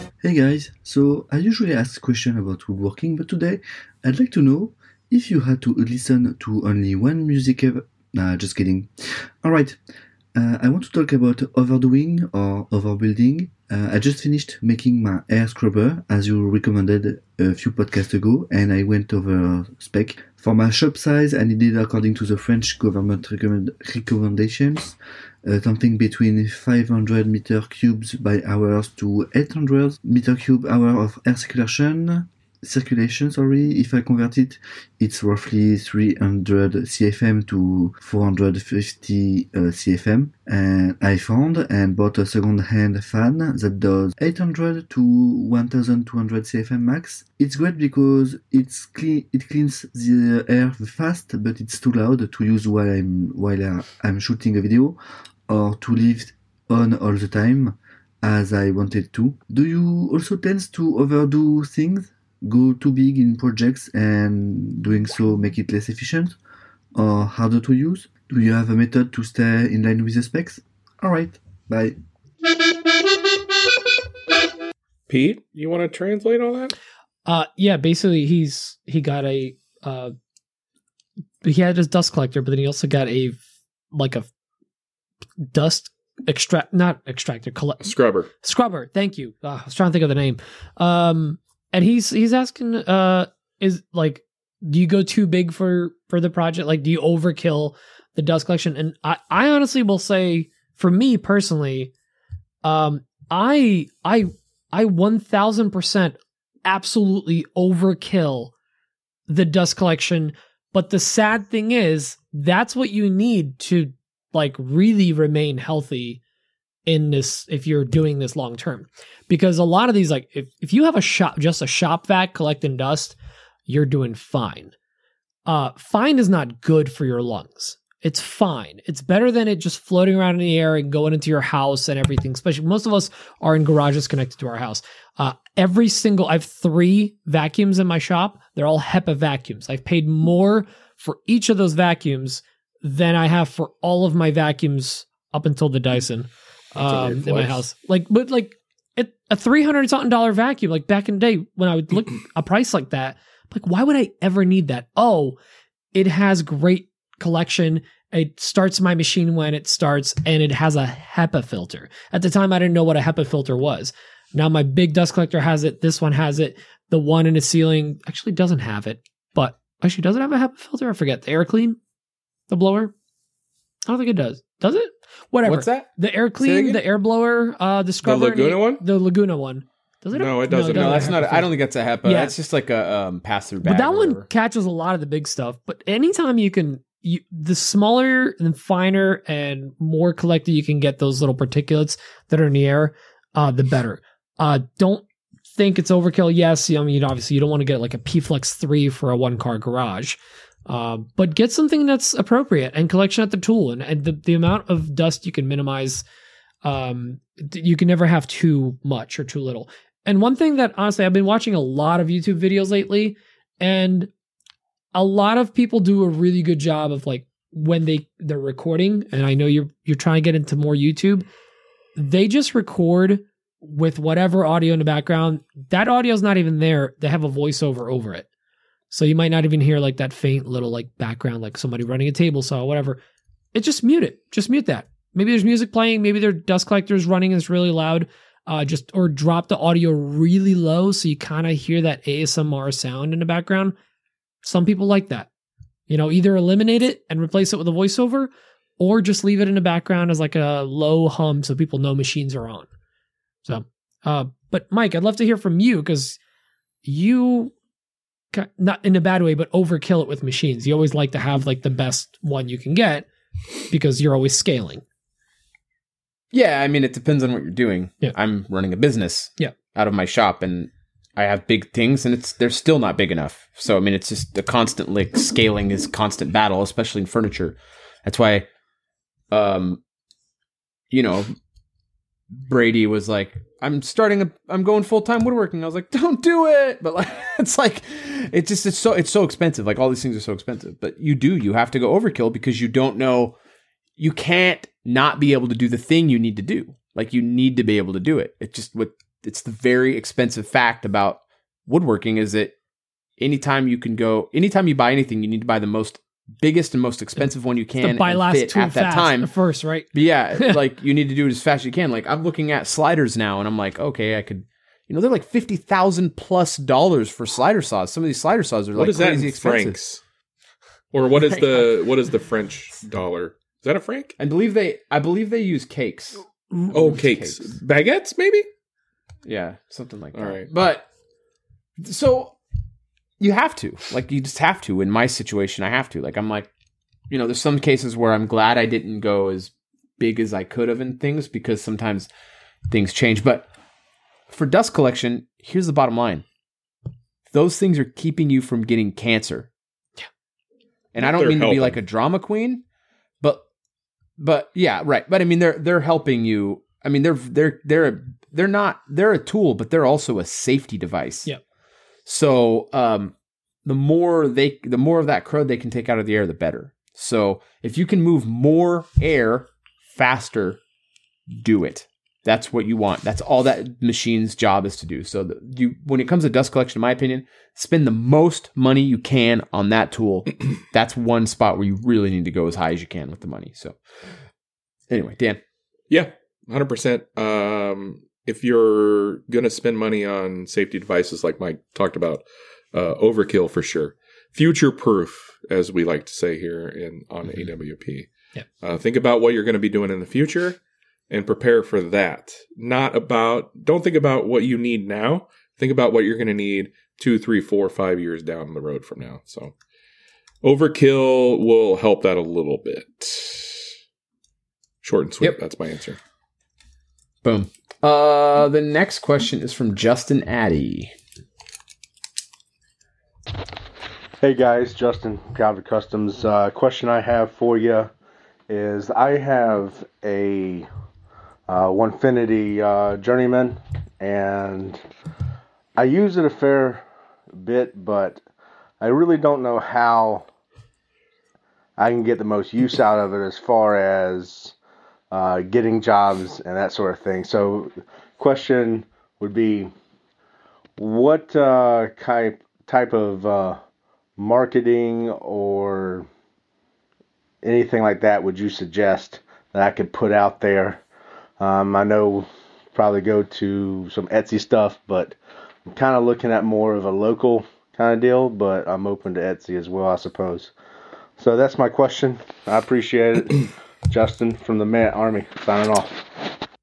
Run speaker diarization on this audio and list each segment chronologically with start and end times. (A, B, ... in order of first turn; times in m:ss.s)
0:00.2-0:08.9 A
0:09.4-0:09.8 A
0:10.4-0:55.0 A
0:55.5-1:06.4 A
1:07.0-1:12.0 A
1:15.1-1:16.8 B
1:17.3-1:20.1 C
1:21.4-1:23.4 C
1:23.9-1:24.3 C
1:25.5-1:41.9 C
1:27.8-1:28.3 B
1:42.6-1:48.5 C
1:49.3-1:56.2 C
1:56.9-2:03.2 C
2:03.7-2:04.7 C
2:05.5-2:35.4 C
2:26.8-2:27.6 D
2:35.9-2:51.8 C
2:52.5-2:52.9 C
2:53.9-3:01.5 C
2:55.4-2:56.8 D
2:58.0-2:58.8 B
3:00.1-3:01.2 B
3:00.7-3:04.3 D
3:02.0-3:02.4 C
3:03.6-3:26.0 C
3:26.6-3:34.1 C
3:35.0-3:41.2 C
3:42.0-3:48.3 C
3:48.9-3:53.0 C
3:53.5-4:03.8 C
4:04.4-4:05.3 C
4:05.9-4:12.7 C
4:13.5-4:16.2 C
4:16.8-4:17.5 C
4:18.3-4:23.1 C
4:23.7-4:24.8 C
4:26.3-4:38.5 D
4:39.3-4:39.8 D
4:40.9-4:41.3 D
4:42.3-4:53.4 D
4:54.0-5:02.6 D
5:03.2-5:09.3 D
5:07.8-5:10.6 C
5:09.9-5:19.8 D
5:18.8-5:20.0 B
5:20.9-5:24.1 B
5:21.1-5:21.7 D
5:24.2-5:27.6 D
5:26.7-5:28.5 B
5:29.3-5:30.9 D
5:30.1-5:30.5 B
5:31.8-5:32.4 D
5:33.2-5:36.5 D
5:37.1-5:42.1 D
5:42.7-5:43.5 D
5:44.3-5:46.2 D
5:47.3-5:49.5 D
5:50.9-5:52.6 D
5:51.0-5:51.8 B
5:54.2-6:01.3 D
6:02.1-6:03.1 D
6:03.6-6:10.6 D
6:11.3-6:23.8 D
6:24.9-6:25.4 D
6:25.9-6:38.1 B
6:38.6-6:40.6 B
6:41.1-6:49.5 B
6:50.4-6:53.7 B
6:54.8-6:56.0 B
6:57.2-7:00.9 D
7:04.2-7:07.9 E
7:08.5-7:10.7 E
7:11.5-7:14.8 E
7:15.8-7:16.8 E
7:17.4-7:18.2 E
7:18.8-7:20.3 E
7:21.8-7:24.6 E
7:25.1-7:29.7 E
7:30.8-7:33.6 E
7:34.2-7:36.1 E
7:37.4-7:40.8 E
7:41.4-7:50.5 E
7:51.2-7:56.3 E